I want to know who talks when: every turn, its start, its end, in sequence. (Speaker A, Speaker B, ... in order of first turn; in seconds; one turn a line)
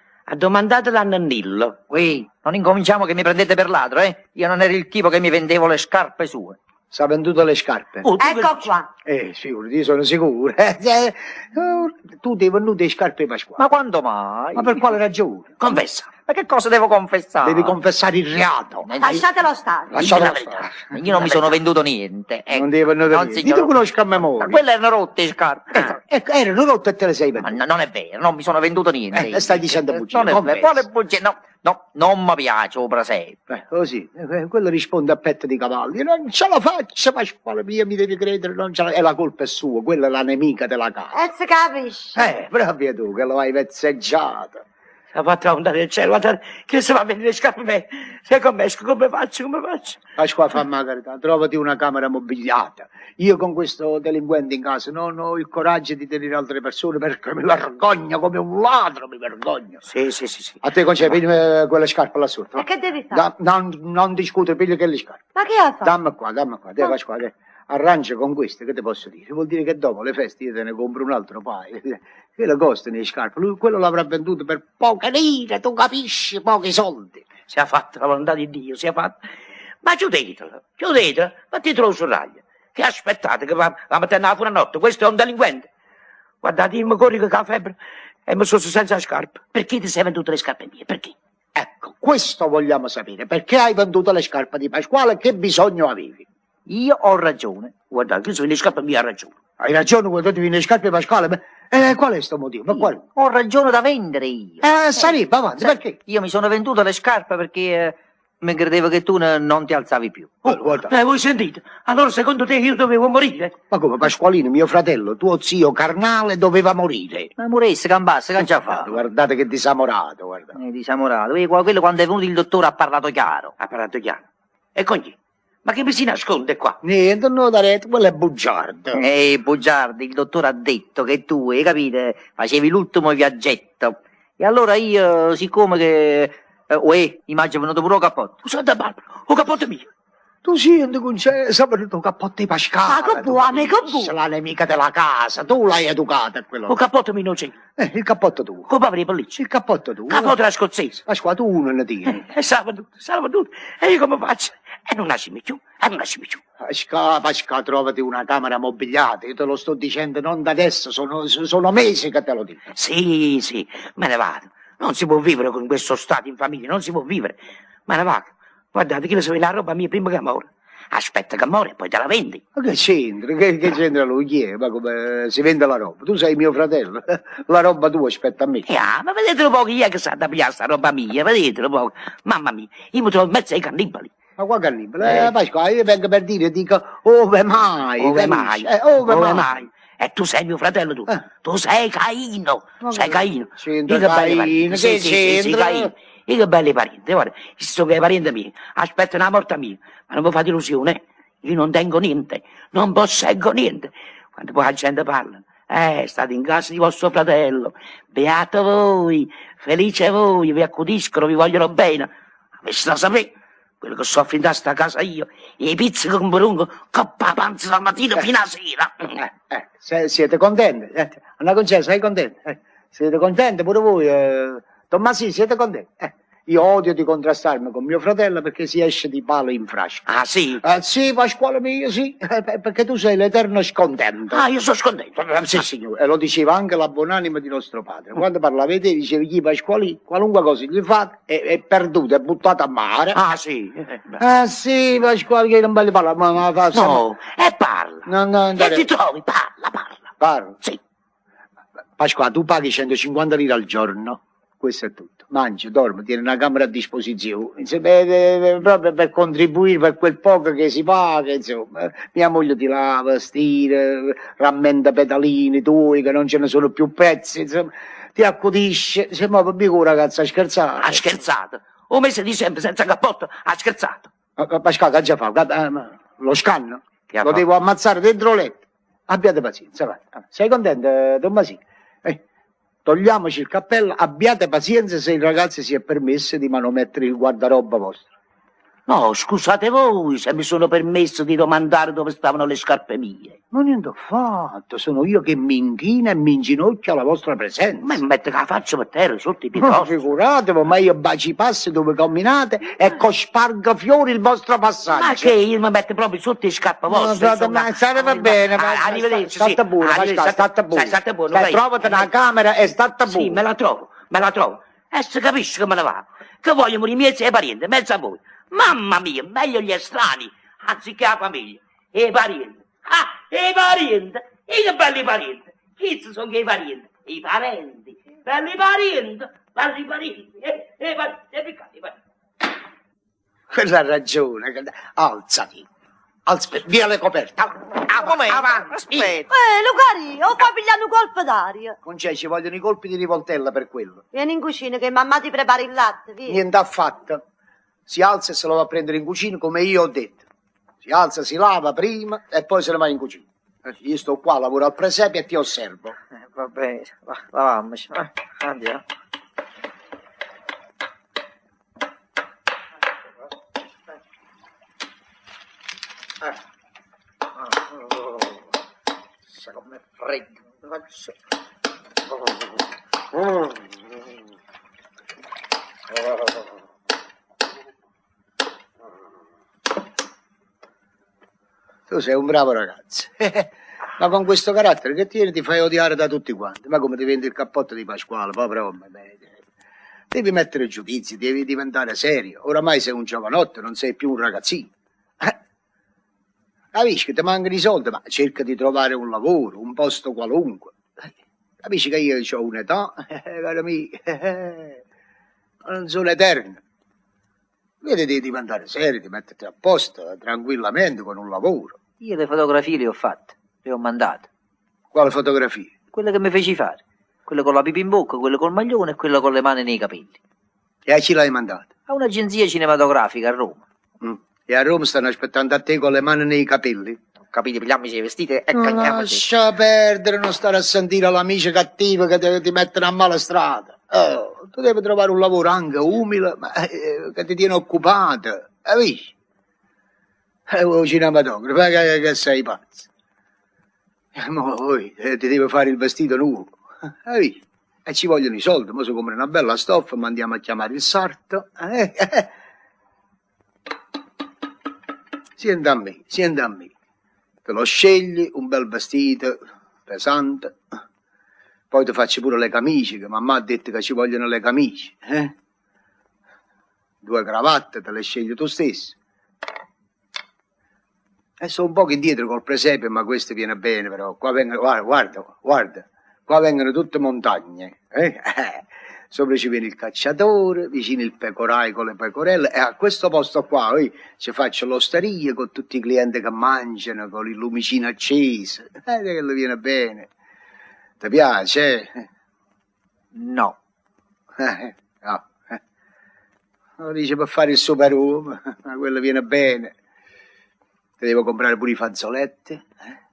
Speaker A: 0.3-1.8
Speaker B: 1.9-6.6
Speaker C: 6.9-8.1
Speaker A: 8.0-8.7
Speaker D: 8.2-8.9
Speaker C: 9.1-13.6
Speaker B: 13.6-14.8
Speaker C: 14.6-15.6
Speaker A: 15.6-16.1
Speaker B: 16.3-17.8
Speaker C: 17.4-18.9
Speaker B: 18.9-19.2
Speaker D: 19.0-20.2
Speaker C: 19.9-20.7
Speaker A: 20.0-20.5
Speaker B: 20.8-23.7
Speaker C: 22.5-24.6
Speaker B: 24.4-26.0
Speaker C: 25.8-27.6
Speaker B: 27.4-33.4
Speaker C: 29.1-30.8
Speaker C: 33.5-41.2
Speaker D: 41.1-42.2
Speaker C: 42.1-44.6
Speaker A: 45.1-50.0
Speaker C: 50.2-59.8
Speaker A: 59.9-60.6
Speaker C: 60.6-65.2
Speaker D: 62.6-63.2
Speaker D: 65.4-65.9
Speaker C: 65.8-77.2
Speaker A: 77.5-79.2
Speaker A: 79.8-85.7
Speaker A: 86.4-87.8
Speaker A: 88.3-91.2
Speaker C: 91.6-96.3
Speaker B: 96.7-97.7
Speaker A: 97.9-99.3
Speaker C: 99.6-103.0
Speaker B: 102.8-110.4
Speaker C: 104.6-106.0
Speaker C: 110.5-110.9
Speaker A: 110.5-113.5
Speaker C: 113.7-117.3
Speaker B: 117.4-119.0
Speaker C: 118.8-120.5
Speaker B: 120.5-123.5
Speaker A: 123.6-124.2
Speaker A: 124.8-126.8
Speaker C: 126.8-129.0
Speaker B: 128.9-138.3
Speaker A: 138.4-139.8
Speaker C: 140.4-146.8
Speaker D: 142.9-144.1
Speaker A: 146.7-147.6
Speaker C: 147.8-148.7
Speaker A: 148.7-149.4
Speaker C: 149.4-150.3
Speaker A: 150.1-151.0
Speaker C: 151.1-152.3
Speaker A: 152.1-156.4
Speaker C: 156.6-162.6
Speaker A: 162.7-167.4
Speaker A: 167.9-172.4
Speaker C: 172.6-178.7
Speaker A: 178.7-184.1
Speaker C: 184.4-189.5
Speaker A: 185.0-185.3
Speaker A: 188.0-212.1
Speaker C: 192.8-195.9
Speaker A: 212.6-219.2
Speaker C: 219.2-230.1
Speaker A: 230.1-230.6
Speaker C: 230.6-234.4
Speaker A: 234.3-235.6
Speaker C: 235.2-243.2
Speaker A: 243.1-244.2
Speaker C: 244.2-247.0
Speaker A: 246.7-250.1
Speaker C: 248.1-248.9
Speaker C: 250.2-250.6
Speaker C: 252.0-271.0
Speaker A: 270.8-274.1
Speaker C: 274.4-282.2
Speaker A: 277.1-277.4
Speaker C: 282.9-288.1
Speaker A: 288.9-293.4
Speaker C: 293.5-298.0
Speaker A: 297.8-300.0
Speaker C: 299.6-305.3
Speaker A: 304.9-312.1
Speaker C: 306.9-313.4
Speaker A: 313.1-332.0
Speaker C: 333.5-335.7
Speaker C: 336.3-338.7
Speaker B: 337.9-339.3
Speaker D: 339.3-341.8
Speaker C: 341.9-344.0
Speaker D: 344.1-346.4
Speaker C: 346.3-347.2
Speaker C: 347.9-350.2
Speaker C: 350.8-355.9
Speaker B: 356.3-358.8
Speaker B: 369.3-371.1
Speaker C: 381.9-389.4
Speaker C: 390.1-395.4
Speaker C: 396.7-401.1
Speaker C: 401.6-404.8
Speaker C: 405.6-406.6
Speaker C: 407.8-411.8
Speaker B: 412.0-414.3
Speaker C: 414.9-415.8
Speaker B: 415.9-420.2
Speaker C: 420.9-421.7
Speaker B: 421.9-423.6
Speaker C: 424.0-427.0
Speaker B: 427.3-429.2
Speaker C: 428.5-439.1
Speaker C: 440.5-442.9
Speaker C: 444.1-452.3
Speaker C: 455.4-456.7
Speaker C: 457.4-460.6
Speaker C: 461.7-465.3
Speaker C: 467.0-468.9
Speaker C: 471.4-490.1
Speaker C: 491.0-492.1
Speaker B: 493.1-493.6
Speaker C: 494.4-495.6
Speaker C: 496.8-499.7
Speaker C: 501.0-503.0